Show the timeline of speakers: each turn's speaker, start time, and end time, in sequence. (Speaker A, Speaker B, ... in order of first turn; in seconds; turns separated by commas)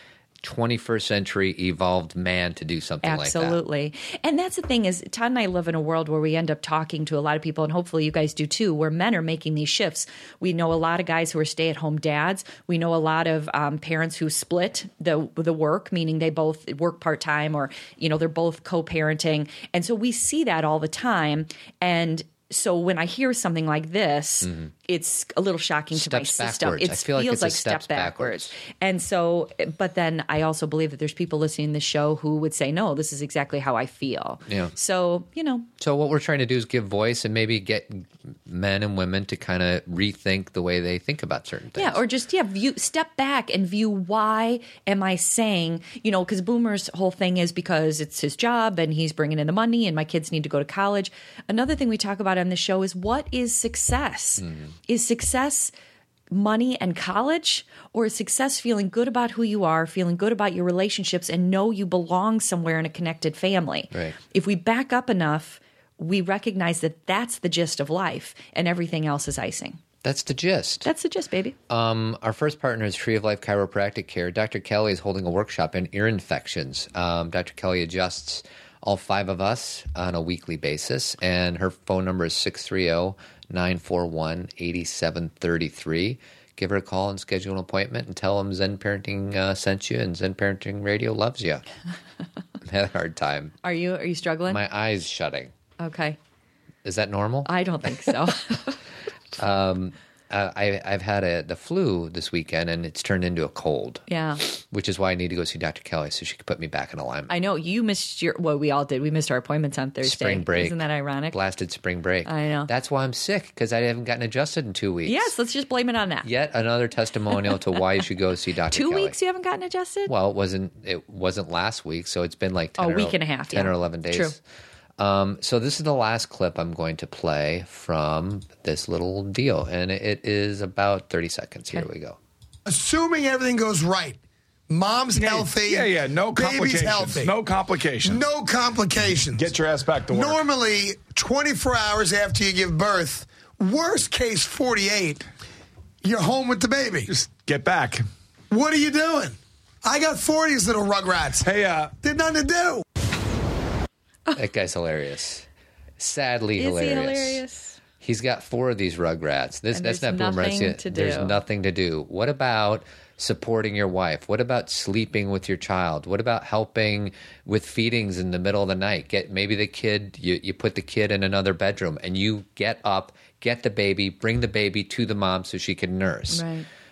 Speaker A: 0.4-3.6, Speaker B: 3.0-35.7, Speaker A: 25.9-28.5, Speaker A: 34.5-34.7, Speaker A: 35.8-42.0, Speaker B: 41.8-55.7, Speaker B: 56.3-69.8, Speaker A: 70.0-70.9, Speaker B: 70.8-71.5, Speaker A: 71.7-91.6, Speaker A: 92.6-93.5, Speaker B: 93.6-94.6, Speaker A: 94.5-95.5, Speaker B: 95.8-96.2, Speaker A: 96.8-97.5, Speaker B: 97.5-98.8, Speaker A: 99.3-107.3, Speaker B: 104.1-104.4, Speaker B: 107.3-111.4, Speaker A: 110.0-115.3, Speaker B: 112.2-112.7, Speaker B: 115.0-116.3, Speaker A: 116.2-119.2, Speaker B: 118.7-120.1, Speaker A: 120.1-124.4, Speaker B: 122.8-124.3, Speaker A: 125.0-132.2, Speaker C: 132.7-134.2, Speaker C: 134.7-137.3, Speaker D: 135.1-138.2, Speaker C: 138.0-139.5, Speaker D: 139.4-140.4, Speaker C: 140.1-145.2, Speaker C: 146.0-147.1, Speaker D: 147.1-148.0, Speaker C: 148.5-151.5, Speaker D: 151.4-151.9, Speaker C: 152.0-152.8, Speaker A: 154.3-155.4, Speaker A: 156.0-157.4, Speaker B: 156.6-157.8, Speaker A: 158.0-176.4, Speaker B: 159.7-161.4, Speaker B: 176.3-176.7